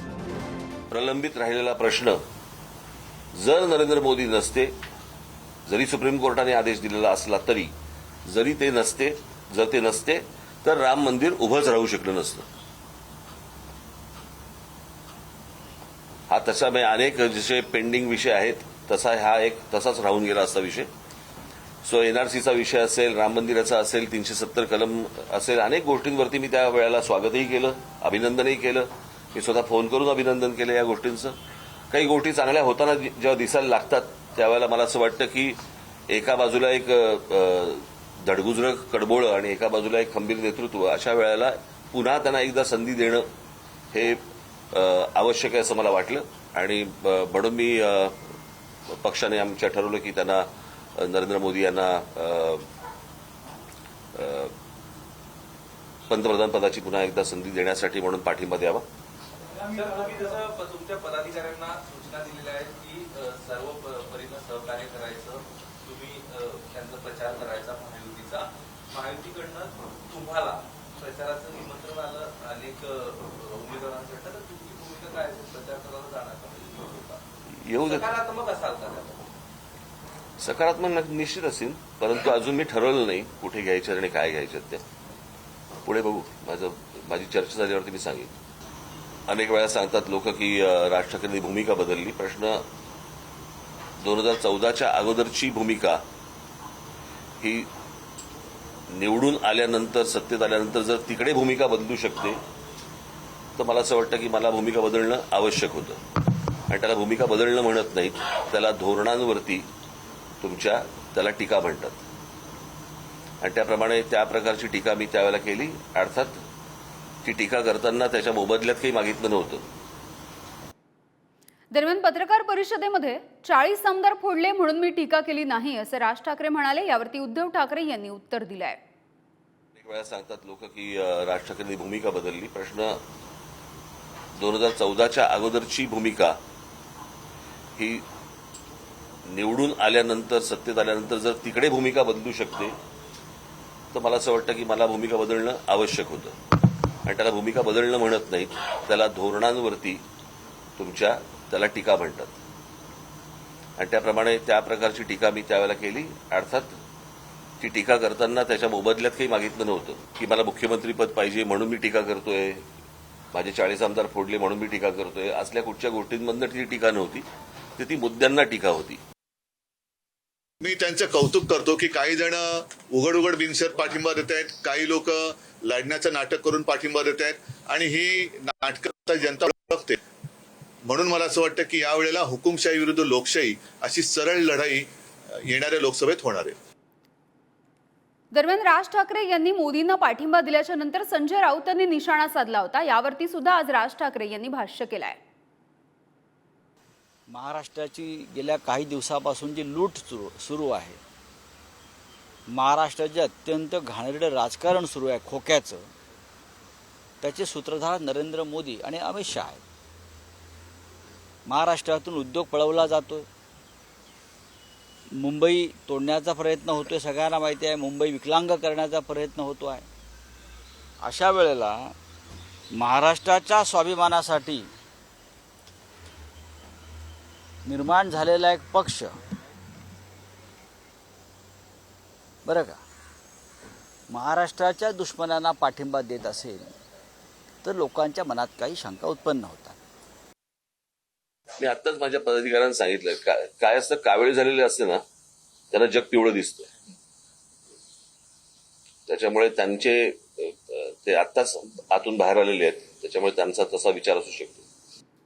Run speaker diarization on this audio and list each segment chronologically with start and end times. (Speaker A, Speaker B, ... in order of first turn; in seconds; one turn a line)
Speaker A: 0.9-2.2
Speaker A: 3.3-4.7
Speaker A: 5.7-7.7
Speaker A: 8.2-12.5
Speaker A: 16.3-20.9
Speaker A: 21.8-31.4
Speaker A: 31.9-35.6
Speaker A: 36.1-43.2
Speaker A: 43.9-44.2
Speaker A: 44.7-48.2
Speaker A: 48.9-50.5
Speaker A: 51.0-52.7
Speaker A: 54.1-54.5
Speaker A: 56.1-58.8
Speaker B: 59.6-77.2
Speaker A: 77.6-78.1
Speaker B: 77.8-79.2
Speaker A: 80.4-84.8
Speaker A: 85.8-88.3
Speaker A: 89.3-92.6
Speaker A: 94.0-96.0
Speaker A: 97.4-97.7
Speaker A: 98.9-102.4
Speaker A: 103.6-106.0
Speaker A: 106.7-109.7
Speaker A: 110.4-112.0
Speaker A: 113.4-116.4
Speaker A: 117.2-119.6
Speaker C: 121.7-128.8
Speaker A: 129.8-133.0
Speaker A: 134.3-136.3
Speaker A: 137.8-138.0
Speaker A: 139.2-142.7
Speaker A: 143.9-146.3
Speaker A: 147.1-150.0
Speaker A: 150.8-152.4
Speaker A: 153.8-156.8
Speaker A: 157.6-162.7
Speaker A: 163.3-167.2
Speaker A: 167.8-169.0
Speaker D: 170.6-180.0
Speaker D: 180.9-184.9
Speaker D: 185.4-186.6
Speaker C: 188.3-195.2
Speaker E: 197.3-201.0
Speaker E: 202.5-205.9
Speaker E: 207.2-209.6
Speaker E: 211.4-213.3
Speaker E: 215.1-219.9
Speaker E: 221.0-221.9
Speaker E: 222.7-224.7
Speaker E: 227.6-229.2
Speaker E: 232.4-232.8
Speaker E: 234.1-236.7
Speaker E: 237.6-239.8
Speaker A: 241.6-245.0
Speaker A: 245.7-246.7
Speaker A: 249.1-254.6